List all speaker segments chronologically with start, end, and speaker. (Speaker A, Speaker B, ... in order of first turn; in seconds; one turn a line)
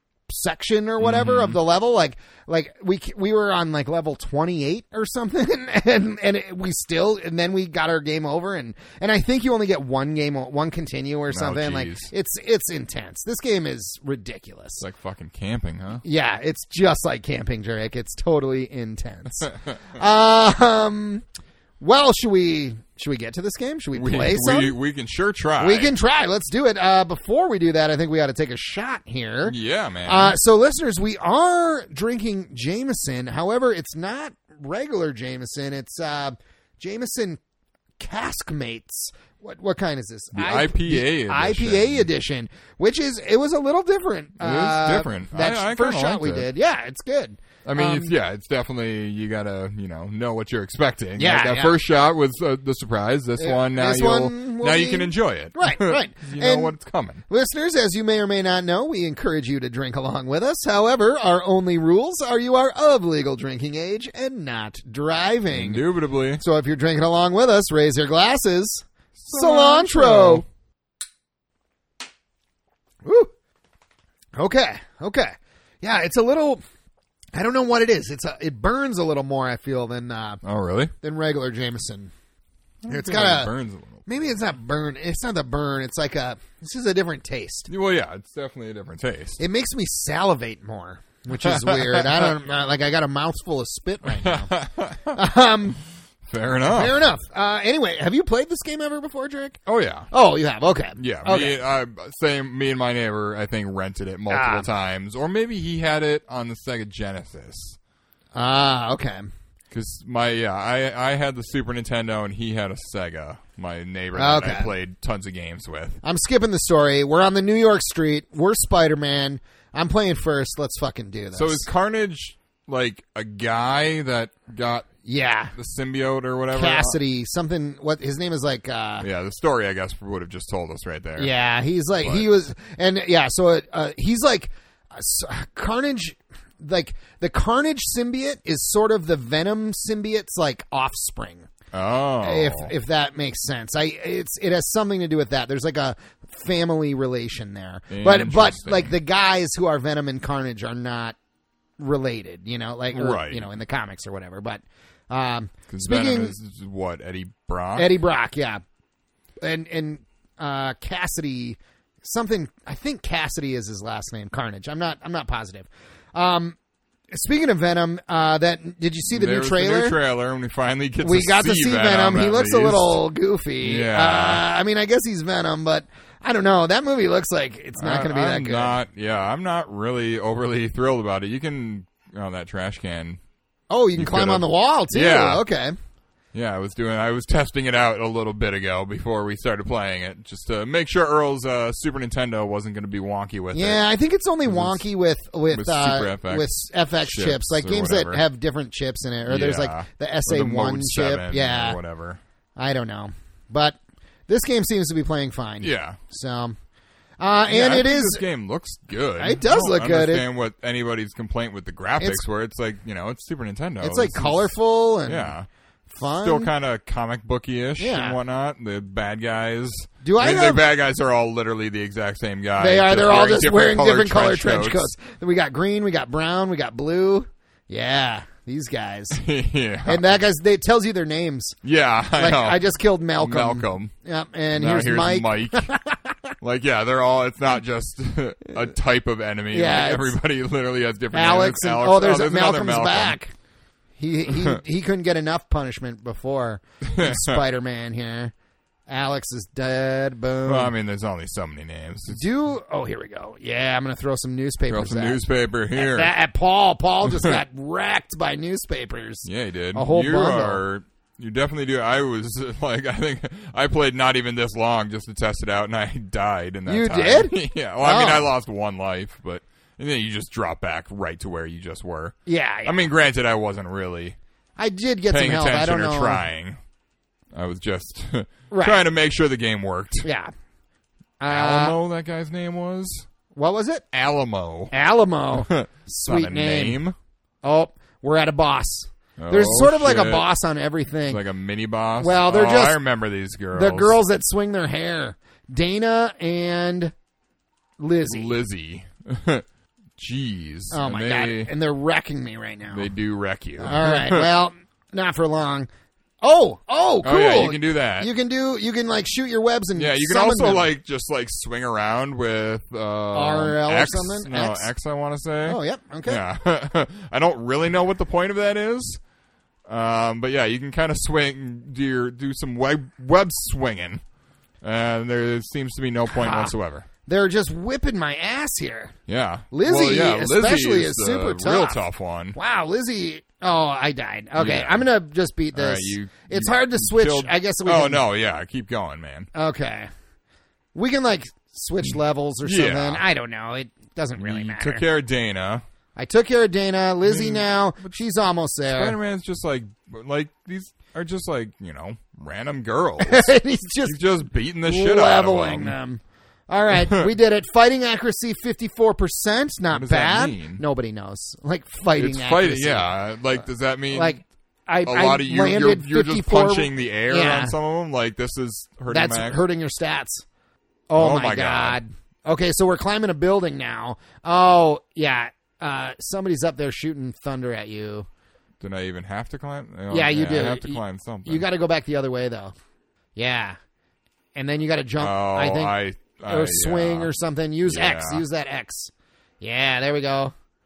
Speaker A: 0.3-14.8
Speaker B: 1.0-1.6
Speaker B: 11.3-12.1
Speaker B: 14.8-16.0
Speaker A: 16.0-21.2
Speaker A: 21.8-24.7
Speaker B: 23.9-25.9
Speaker A: 25.6-37.4
Speaker B: 29.4-30.4
Speaker A: 38.0-48.1
Speaker B: 40.3-42.1
Speaker B: 44.4-46.5
Speaker B: 47.6-57.2
Speaker A: 51.2-51.8
Speaker A: 53.4-56.8
Speaker A: 57.3-65.8
Speaker B: 65.5-66.4
Speaker A: 66.4-70.4
Speaker B: 69.2-70.5
Speaker A: 73.0-73.3
Speaker A: 74.3-76.6
Speaker A: 77.3-80.4
Speaker B: 80.4-80.9
Speaker A: 81.0-82.1
Speaker B: 82.8-84.2
Speaker A: 82.9-83.5
Speaker A: 84.0-87.7
Speaker B: 87.7-89.4
Speaker A: 89.4-94.5
Speaker B: 91.3-92.3
Speaker B: 94.1-95.2
Speaker A: 95.1-95.8
Speaker B: 96.2-97.0
Speaker A: 96.6-99.6
Speaker B: 99.7-100.1
Speaker A: 100.1-101.6
Speaker B: 101.0-107.8
Speaker A: 104.3-104.7
Speaker A: 108.3-109.3
Speaker B: 109.7-116.0
Speaker A: 114.1-114.7
Speaker A: 116.0-121.7
Speaker B: 121.3-124.9
Speaker A: 125.0-125.5
Speaker B: 125.5-127.0
Speaker A: 126.5-129.1
Speaker B: 129.0-131.3
Speaker A: 131.2-141.5
Speaker B: 132.0-132.2
Speaker B: 141.7-142.7
Speaker A: 142.2-151.2
Speaker B: 147.9-149.0
Speaker A: 151.8-156.3
Speaker B: 152.9-153.4
Speaker B: 155.7-157.9
Speaker A: 157.8-158.6
Speaker A: 159.4-166.6
Speaker A: 167.1-170.0
Speaker B: 169.1-173.0
Speaker A: 171.0-178.8
Speaker B: 173.6-174.4
Speaker B: 177.8-183.2
Speaker A: 183.7-185.7
Speaker B: 183.9-185.4
Speaker B: 186.3-193.8
Speaker A: 193.5-201.8
Speaker B: 194.4-194.8
Speaker B: 195.5-198.2
Speaker B: 199.3-202.2
Speaker A: 202.6-203.8
Speaker A: 204.3-206.6
Speaker B: 205.6-206.0
Speaker A: 207.2-208.2
Speaker B: 207.5-214.5
Speaker A: 209.2-210.2
Speaker A: 212.0-212.2
Speaker A: 213.8-215.3
Speaker B: 215.1-215.5
Speaker A: 215.9-216.5
Speaker B: 216.0-224.9
Speaker A: 217.8-218.2
Speaker A: 220.0-220.6
Speaker A: 222.6-229.2
Speaker B: 229.1-230.0
Speaker A: 229.8-231.6
Speaker B: 231.6-232.6
Speaker A: 232.2-236.3
Speaker B: 233.2-233.9
Speaker B: 234.5-235.7
Speaker B: 236.4-243.2
Speaker A: 239.5-240.2
Speaker A: 241.1-243.3
Speaker A: 244.0-248.3
Speaker B: 244.3-244.6
Speaker B: 246.8-247.4
Speaker A: 248.9-250.7
Speaker B: 250.4-252.2
Speaker A: 252.1-255.2
Speaker B: 254.7-256.1
Speaker A: 255.7-260.6
Speaker B: 257.0-257.4
Speaker B: 259.2-274.2
Speaker A: 266.7-268.3
Speaker A: 272.2-272.9
Speaker A: 274.6-276.2
Speaker B: 275.1-276.6
Speaker B: 277.3-280.1
Speaker A: 278.5-278.8
Speaker A: 280.0-280.3
Speaker A: 281.2-281.8
Speaker B: 281.3-283.1
Speaker A: 283.3-283.8
Speaker B: 283.9-284.7
Speaker A: 284.7-286.8
Speaker B: 285.3-286.9
Speaker A: 287.4-291.2
Speaker B: 289.2-290.3
Speaker B: 291.1-294.0
Speaker A: 292.0-292.8
Speaker A: 293.5-296.9
Speaker A: 297.8-298.4
Speaker B: 298.0-299.4
Speaker B: 300.0-301.5
Speaker A: 300.7-302.9
Speaker B: 302.7-304.3
Speaker A: 303.6-305.7
Speaker A: 306.2-310.7
Speaker B: 307.0-308.1
Speaker B: 309.8-319.0
Speaker A: 313.1-314.7
Speaker A: 315.4-316.2
Speaker B: 319.7-324.0
Speaker B: 324.6-326.9
Speaker A: 326.1-326.5
Speaker A: 327.1-328.9
Speaker B: 329.1-332.4
Speaker A: 329.5-338.0
Speaker B: 334.4-334.9
Speaker B: 335.5-339.3
Speaker A: 339.3-339.9
Speaker A: 340.7-344.8
Speaker B: 342.4-343.0
Speaker B: 344.2-345.6
Speaker A: 345.9-349.0
Speaker B: 347.1-347.9
Speaker B: 348.7-355.8
Speaker A: 353.0-354.0
Speaker A: 354.6-362.9
Speaker B: 356.7-357.1
Speaker B: 359.7-360.6
Speaker B: 361.9-364.2
Speaker A: 363.9-367.5
Speaker B: 364.8-369.4
Speaker A: 368.9-370.2
Speaker A: 370.9-378.1
Speaker B: 371.0-371.8
Speaker B: 378.6-381.4
Speaker A: 379.9-382.5
Speaker A: 383.1-383.6
Speaker A: 384.3-385.8
Speaker B: 385.0-387.1
Speaker A: 386.3-390.3
Speaker B: 387.6-388.2